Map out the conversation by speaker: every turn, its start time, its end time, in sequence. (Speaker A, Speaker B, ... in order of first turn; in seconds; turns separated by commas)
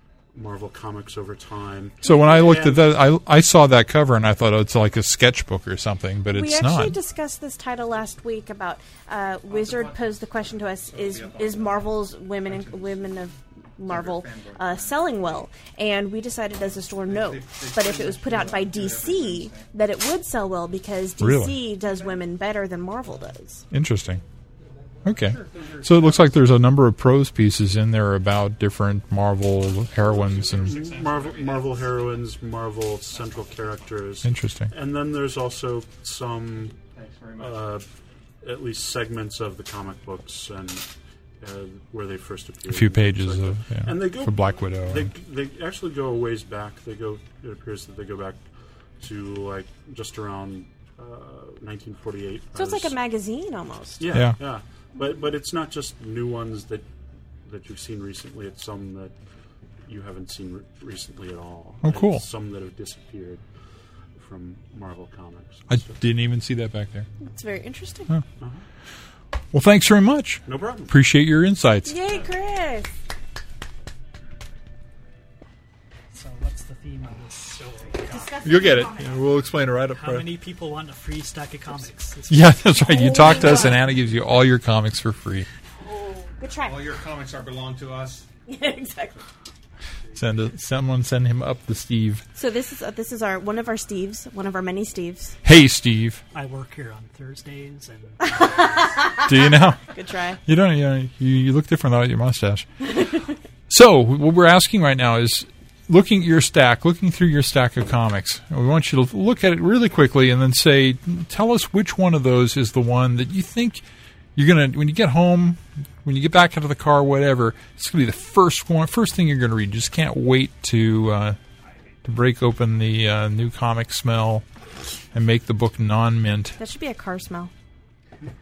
Speaker A: 0.3-3.0, Speaker B: 2.0-2.7, Speaker C: 2.0-7.0, Speaker B: 6.3-23.6, Speaker D: 9.5-10.2, Speaker D: 10.8-13.2, Speaker D: 13.8-15.2, Speaker D: 17.0-19.7, Speaker C: 21.2-21.6, Speaker C: 23.7-24.2, Speaker C: 25.1-30.8, Speaker D: 25.1-26.4, Speaker D: 30.0-32.0, Speaker A: 30.1-36.8, Speaker C: 34.2-34.7, Speaker D: 36.8-37.8, Speaker A: 37.4-37.9, Speaker A: 38.4-40.9, Speaker A: 41.4-48.4, Speaker C: 42.7-45.1, Speaker A: 49.0-53.0, Speaker B: 52.5-54.1, Speaker A: 54.0-56.9, Speaker C: 54.1-54.4, Speaker A: 57.5-59.1, Speaker A: 59.9-63.4, Speaker C: 61.8-62.2, Speaker A: 64.2-66.0, Speaker C: 65.7-67.1, Speaker B: 67.2-68.1, Speaker C: 69.5-72.0, Speaker A: 70.5-70.9, Speaker B: 71.9-72.9, Speaker E: 76.1-78.4, Speaker B: 78.1-79.3, Speaker C: 78.4-80.3, Speaker E: 79.9-83.1, Speaker C: 82.3-85.5, Speaker B: 82.8-83.8, Speaker B: 85.8-86.9, Speaker D: 86.6-88.3, Speaker B: 88.5-89.2, Speaker C: 90.2-92.2, Speaker B: 92.3-95.4, Speaker C: 95.4-96.2, Speaker E: 96.3-98.7, Speaker B: 98.3-100.4, Speaker C: 99.2-99.8, Speaker C: 100.5-102.9, Speaker C: 103.7-113.8, Speaker C: 114.4-121.4, Speaker C: 122.0-124.5, Speaker C: 125.1-126.6, Speaker B: 126.6-127.5